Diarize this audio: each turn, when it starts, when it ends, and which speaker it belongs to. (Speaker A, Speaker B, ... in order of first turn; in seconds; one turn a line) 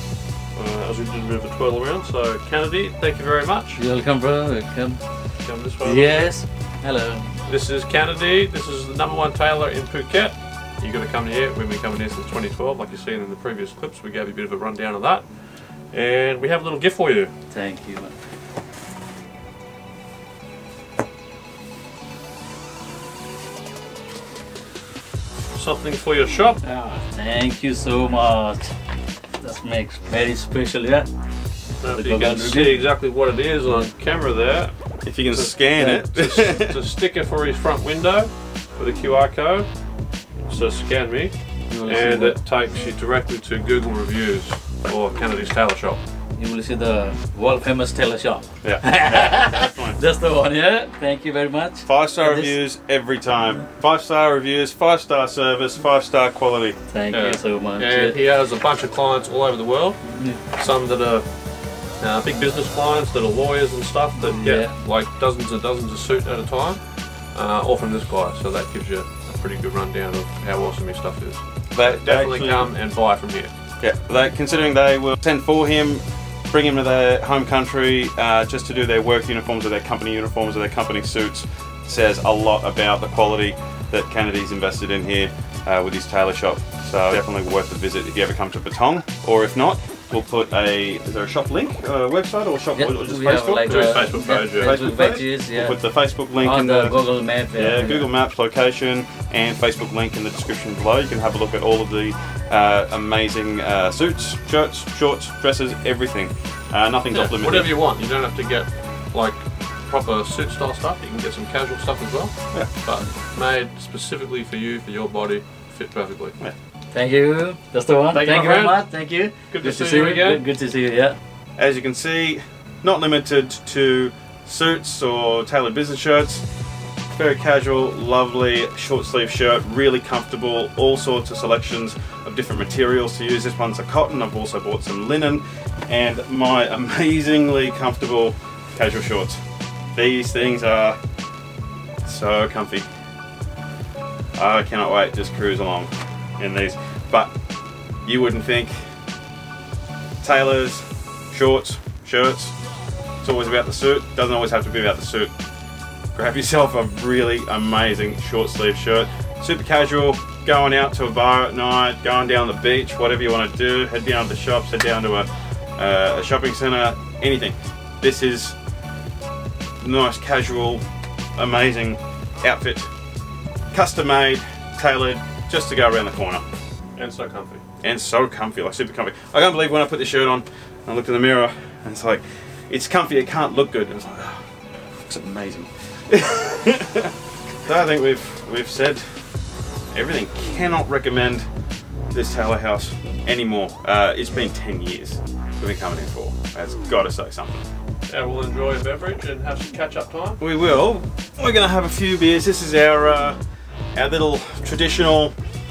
Speaker A: 0.5-3.8
Speaker B: 3.8-5.0
Speaker A: 5.4-6.3
Speaker B: 5.8-7.4
Speaker A: 7.5-17.3
Speaker B: 17.5-18.1
Speaker A: 25.6-26.6
Speaker B: 26.6-28.7
Speaker B: 29.4-31.1
Speaker A: 31.8-39.9
Speaker B: 31.9-32.8
Speaker C: 35.0-36.8
Speaker A: 40.4-46.0
Speaker B: 41.7-42.4
Speaker B: 46.4-52.6
Speaker C: 48.6-50.0
Speaker C: 51.9-56.8
Speaker B: 56.9-58.2
Speaker A: 57.1-73.5
Speaker B: 60.0-60.4
Speaker B: 64.4-64.8
Speaker C: 71.7-72.7
Speaker C: 73.8-107.8
Speaker B: 92.8-98.1
Speaker A: 93.6-94.8
Speaker A: 107.1-116.4
Speaker B: 116.9-121.2
Speaker A: 118.1-118.9
Speaker A: 119.5-120.4
Speaker C: 121.6-126.4
Speaker C: 127.1-139.4
Speaker C: 139.9-141.0
Speaker C: 142.0-142.9
Speaker C: 144.4-147.3
Speaker C: 148.1-148.8
Speaker C: 150.2-152.6
Speaker C: 153.2-155.3
Speaker C: 156.2-168.6
Speaker C: 169.8-170.8
Speaker C: 171.4-172.9
Speaker C: 173.7-176.4
Speaker A: 177.0-177.6
Speaker C: 177.8-189.3
Speaker C: 189.9-191.5
Speaker C: 192.1-197.6
Speaker A: 198.1-200.4
Speaker C: 200.4-203.4
Speaker C: 203.9-205.3